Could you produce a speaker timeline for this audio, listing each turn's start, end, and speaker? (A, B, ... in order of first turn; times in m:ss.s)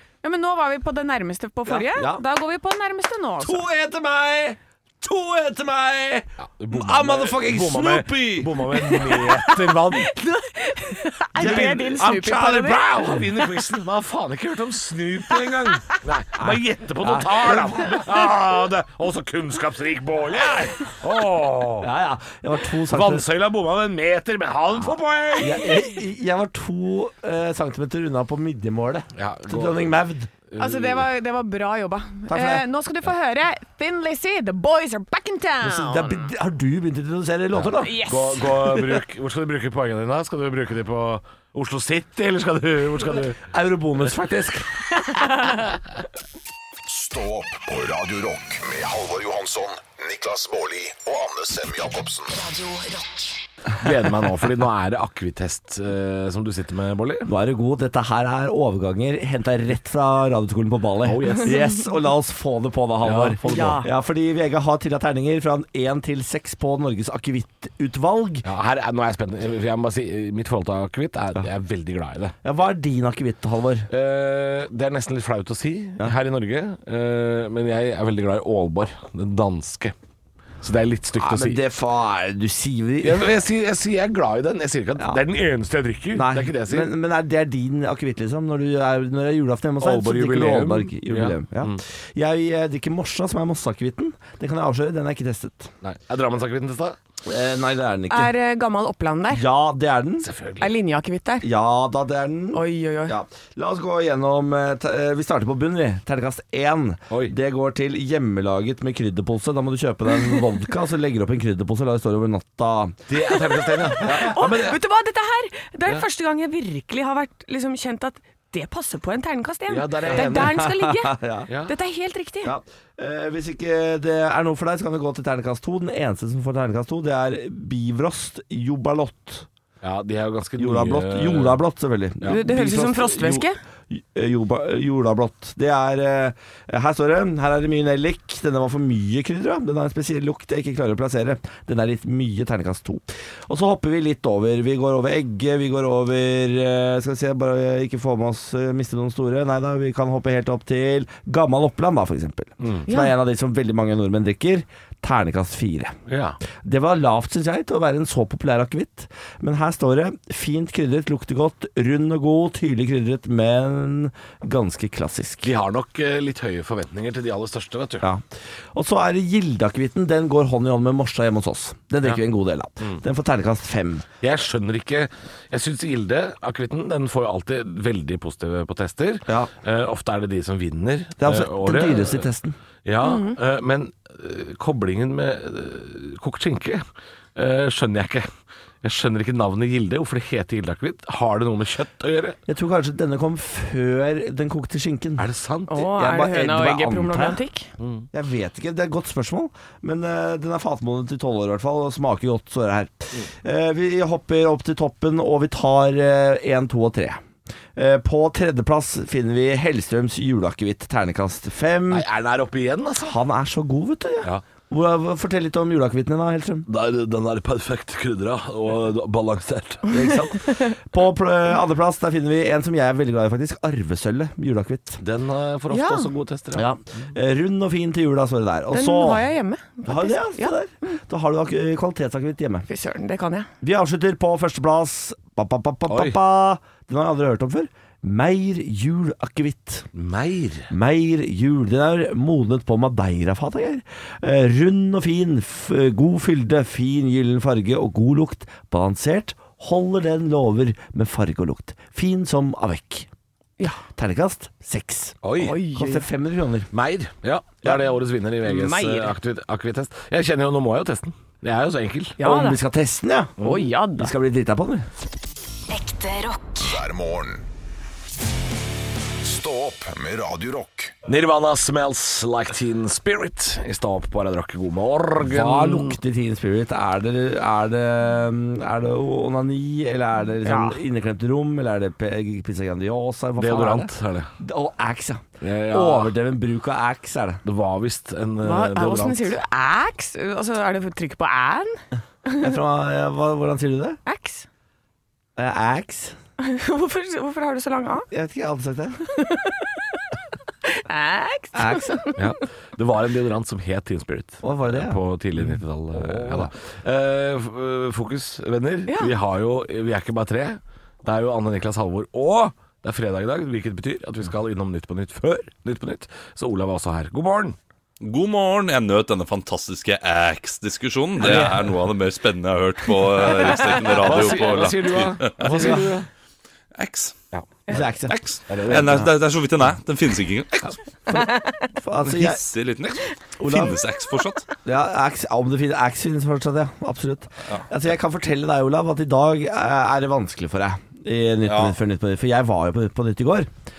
0:00.2-0:03.6 A
0:01.7-0:02.2 B
0:03.4-0:08.9 B
0:06.4-0:10.1 C
0:08.8-0:12.8 A
0:11.4-0:13.3 B
0:11.4-0:12.2 C
0:12.7-0:21.9 C
0:15.4-0:16.0 A
0:16.4-0:18.0 B
0:21.8-0:23.3 B
0:22.9-0:25.8 C
0:25.4-0:30.3 B
0:29.2-0:29.9 C
0:30.5-0:31.1 C
0:30.6-0:36.3 A
0:32.3-0:32.6 B
0:35.6-0:38.0 B
0:37.6-0:43.4 C
0:37.8-0:38.9 A
0:43.5-0:44.7 B
0:45.0-0:45.7 A
0:46.9-0:52.4 D
0:52.3-0:53.4 E
0:53.8-0:57.3 C
0:57.3-1:08.5 B
1:01.0-1:01.7 C
1:03.0-1:03.8 C
1:03.5-1:03.9 A
1:08.4-1:12.4 C
1:12.4-1:13.9 B
1:13.9-1:19.9 C
1:20.6-1:21.6 C
1:21.2-1:23.3 B
1:23.0-1:26.9 C
1:26.1-1:35.7 B
1:29.8-1:31.8 C
1:35.8-1:37.0 C
1:37.2-1:38.3 B
1:38.1-1:39.4 A
1:39.3-1:40.3 B
1:40.2-1:40.7 C
1:40.6-1:41.5 A
1:41.4-1:53.0 B
1:42.5-1:43.2 A
1:53.1-1:54.8 C
1:53.5-2:02.6 A
1:54.0-1:54.5 B
1:59.7-2:00.6 C
2:00.1-2:01.5 B
2:01.5-2:01.7 C
2:02.4-2:09.5 B
2:09.8-2:11.6 C
2:10.6-2:36.0 B
2:12.3-2:13.6 A
2:32.6-2:32.9 C
2:32.9-2:33.1 A
2:36.1-2:36.4 C
2:36.6-2:45.5 B
2:45.4-2:48.1 C
2:48.0-2:54.1 B
2:54.2-3:02.3 C
3:01.2-3:02.6 B
3:02.8-3:06.8 C
3:03.0-3:03.4 A
3:07.4-3:08.3 C
3:08.8-3:12.4 C
3:12.5-3:17.4 B
3:15.2-3:15.8 C
3:15.7-3:17.7 A
3:17.8-3:18.1 C
3:18.1-3:27.2 B
3:27.8-3:32.1 B
3:31.9-3:33.2 C
3:33.0-3:36.7 B
3:36.7-3:39.9 C
3:39.9-3:45.0 B
3:40.5-3:40.7 A
3:45.0-3:47.1 C
3:45.7-3:46.1 A
3:46.5-3:49.3 B
3:48.7-3:51.0 A
3:49.9-3:52.7 B
3:52.7-3:53.5 A
3:53.6-3:59.9 B
3:55.9-3:56.2 C
3:59.9-4:00.7 C
4:00.7-4:13.1 B
4:13.8-4:15.2 B
4:15.2-4:15.6 C
4:15.4-4:16.0 A
4:15.7-4:16.7 B
4:16.7-4:22.2 C
4:18.4-4:19.2 A
4:22.2-4:22.6 A
4:22.2-4:23.3 B
4:23.4-4:23.7 C
4:23.4-4:24.1 A
4:24.0-4:24.9 B
4:25.7-4:26.8 E
4:26.6-4:27.4 D
4:29.2-4:30.9 D
4:31.1-4:36.0 C
4:35.2-4:47.4 B
4:40.4-4:40.8 A
4:43.4-4:44.3 C
4:45.4-4:46.2 C
4:47.4-4:49.4 C
4:48.4-4:52.5 A
4:52.4-4:54.0 B
4:54.1-4:54.5 A
4:55.4-4:56.2 B
4:56.4-4:58.1 A
4:58.1-4:59.0 B
4:59.1-5:00.0 A
5:00.6-5:02.4 A
5:01.5-5:02.0 B
5:02.2-5:17.6 C
5:04.4-5:06.5 B
5:08.9-5:09.1 A
5:18.0-5:25.9 F
5:21.2-5:21.6 B
5:23.6-5:26.1 C
5:26.8-5:27.2 F
5:27.7-5:28.2 B
5:28.1-5:30.8 F
5:28.5-5:29.1 C
5:28.7-5:29.1 B
5:31.1-5:32.4 B
5:31.2-5:31.6 A
5:32.0-5:34.4 F
5:33.4-5:33.8 B
5:34.6-5:43.5 B
5:41.4-5:41.8 F